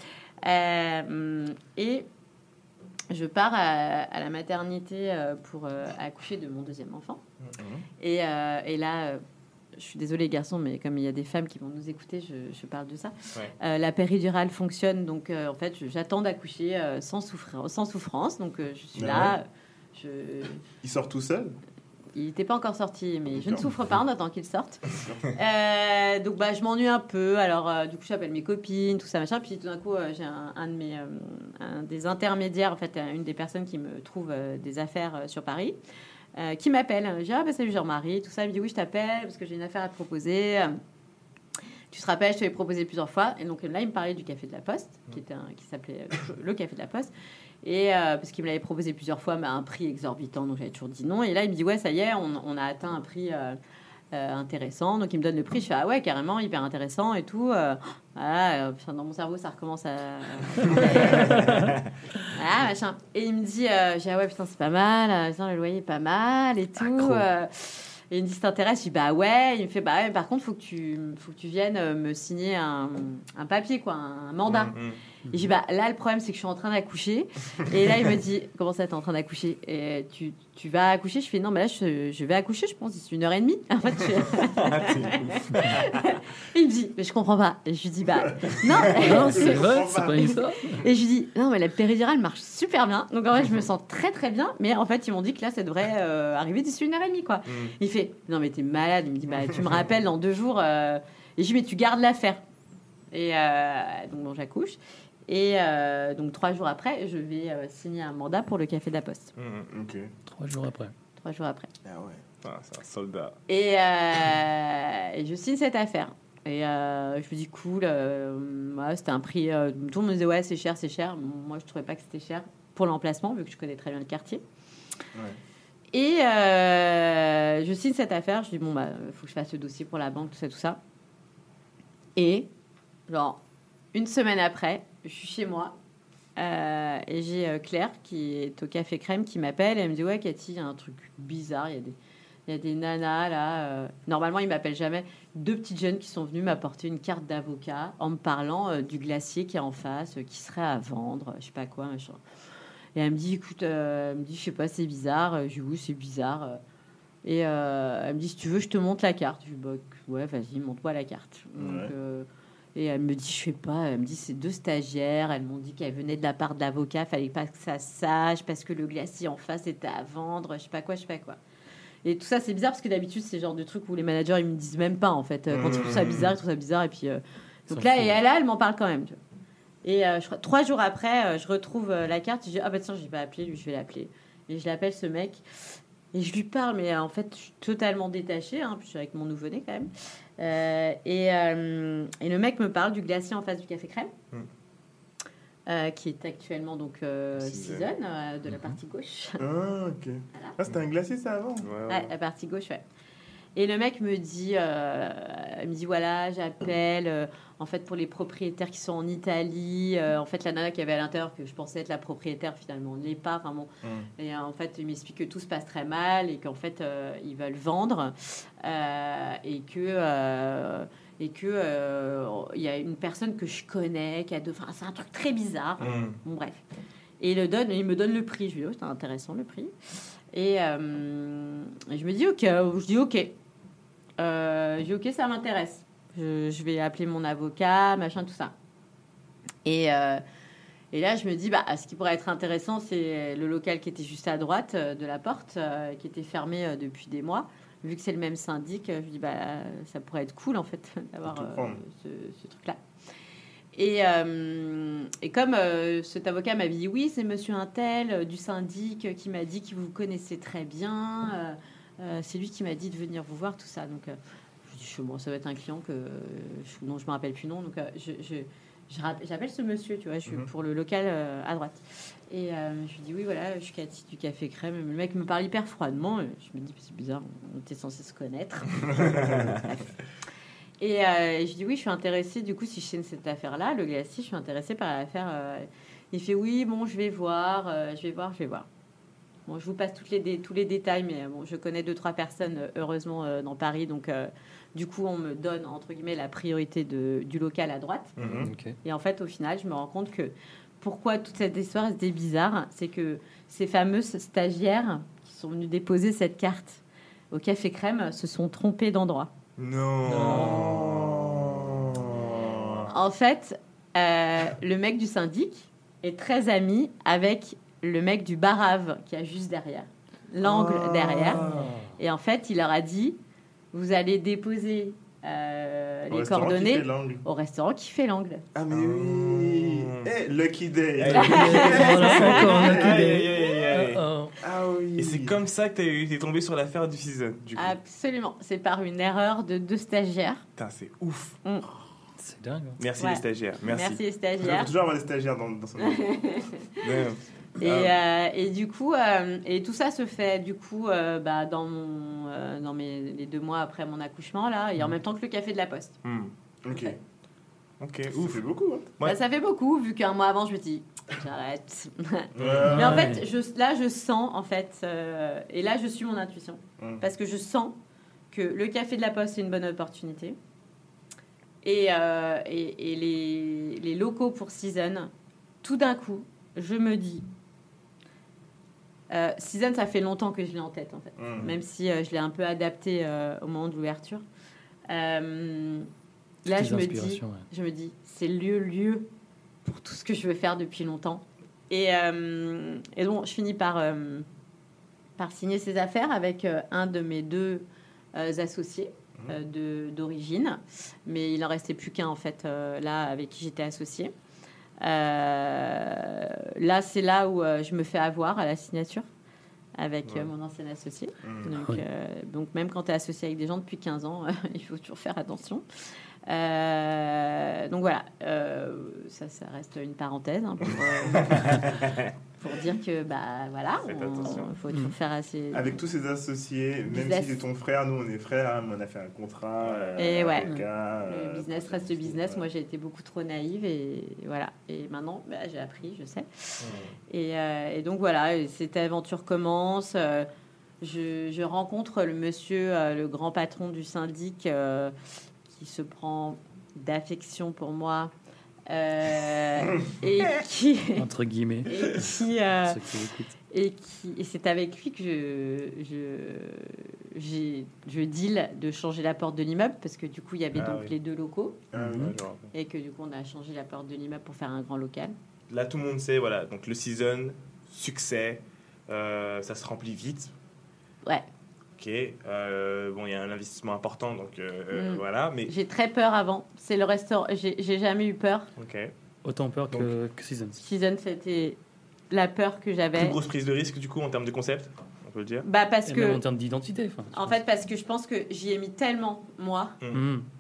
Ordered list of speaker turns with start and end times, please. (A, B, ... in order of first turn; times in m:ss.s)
0:00.4-0:02.1 A
0:03.1-0:07.2 A
0:07.6-0:07.8 B
0:08.0-0:09.2 A
0:09.8-0:20.6 A
0:19.0-0:19.4 B
0:20.8-0:21.6 B
0:22.2-0:35.8 A
0:23.3-0:23.7 B
0:25.0-0:25.3 B
0:36.4-0:40.8 A
0:41.9-0:47.1 A
0:47.6-0:53.6 A
0:54.1-1:14.7 A
1:01.2-1:01.7 C
1:06.8-1:07.2 C
1:14.5-1:15.0 D
1:15.3-1:42.4 A
1:24.4-1:26.0 D
1:28.2-1:30.5 B
1:29.0-1:30.9 C
1:39.4-1:39.8 B
1:43.1-1:49.3 A
1:49.4-1:49.7 D
1:49.7-1:50.1 B
1:50.3-1:50.9 C
1:51.2-1:51.7 A
1:51.8-1:52.2 B
1:52.4-1:53.4 D
1:53.5-2:04.4 A
2:05.9-2:10.8 A
2:12.2-2:12.5 A
2:13.1-2:13.4 A
2:13.9-2:15.8 A
2:16.4-2:22.0 A
2:22.5-2:32.2 A
2:33.0-2:36.6 A
2:37.2-2:51.4 A
2:41.6-2:41.9 B
2:52.0-2:59.2 A
2:55.5-2:56.2 B
2:55.6-2:56.0 D
2:57.7-2:58.2 C
2:59.8-3:14.1 A
3:15.7-3:19.4 A
3:17.4-3:17.9 D
3:19.4-3:21.7 B
3:21.6-3:22.1 D
3:21.9-3:22.8 A
3:23.6-3:46.6 A
3:33.8-3:34.1 B
3:45.8-3:46.2 D
3:47.2-3:49.7 A
3:50.3-3:53.3 A
3:54.2-3:58.5 A
3:59.6-4:00.2 A
4:00.9-4:12.8 A
4:11.3-4:11.8 B
4:13.7-4:40.0 A
4:38.9-4:39.5 B
4:40.8-4:48.7 A
4:49.5-4:58.2 A
4:58.2-4:58.5 B
4:58.2-4:58.8 C
4:58.8-5:09.3 A
5:09.6-5:12.8 D
5:10.0-5:10.7 C
5:10.3-5:12.9 B
5:12.9-5:21.4 A
5:20.4-5:21.7 B
5:21.4-5:22.0 C
5:22.0-5:23.2 A
5:23.7-5:28.5 A
5:26.1-5:27.2 B
5:28.6-5:33.1 B
5:28.7-5:30.1 D
5:31.0-5:34.0 D
5:31.1-5:34.4 C
5:31.2-5:32.5 A
5:34.4-5:35.4 B
5:35.0-5:37.8 D
5:37.6-5:40.4 A
5:40.6-5:41.4 D
5:42.2-5:42.8 C
5:42.8-5:44.0 D
5:43.0-5:44.7 A
5:44.4-5:46.0 B
5:45.8-5:47.0 A
5:46.8-5:47.9 D
5:47.6-5:56.0 A
5:56.0-5:56.3 D
5:56.6-5:57.0 B
5:56.7-5:57.0 A
5:57.8-5:58.4 D
5:58.1-5:58.9 B
5:59.0-6:07.8 A
6:02.4-6:03.2 B
6:02.4-6:02.7 D
6:02.6-6:03.2 C
6:08.3-6:10.4 A
6:11.6-6:15.1 A
6:15.6-6:17.2 A
6:19.1-6:24.2 A
6:21.2-6:21.6 B
6:24.9-6:25.9 A
6:26.4-6:29.1 A
6:26.5-6:27.4 C
6:29.6-6:34.3 A
6:35.2-6:44.1 A
6:44.8-6:49.1 A
6:49.8-6:55.6 A
6:51.2-6:51.5 B
6:51.5-6:51.8 C
6:56.3-7:01.9 A
7:01.8-7:02.1 D
7:02.4-7:05.8 A
7:03.8-7:04.5 D
7:05.5-7:12.4 B
7:06.9-7:07.4 A
7:09.6-7:10.3 D
7:10.0-7:20.3 A
7:16.6-7:17.0 D
7:20.8-7:25.0 A
7:25.5-7:28.1 A
7:28.7-7:31.0 A
7:31.0-7:33.3 C
7:31.7-7:32.9 A
7:33.5-7:41.6 A
7:40.5-7:41.0 D
7:41.7-7:42.2 B
7:41.7-7:42.2 C
7:41.8-7:42.5 D
7:42.5-7:45.2 A
7:45.5-7:50.3 D
7:51.8-7:55.5 D
7:54.7-7:58.5 A
7:58.6-7:58.9 D
7:59.2-8:00.6 C
8:00.6-8:01.6 A
8:02.1-8:03.2 A
8:02.9-8:05.5 D
8:05.4-8:06.2 A
8:05.9-8:07.4 C
8:07.1-8:09.8 A
8:09.9-8:10.3 C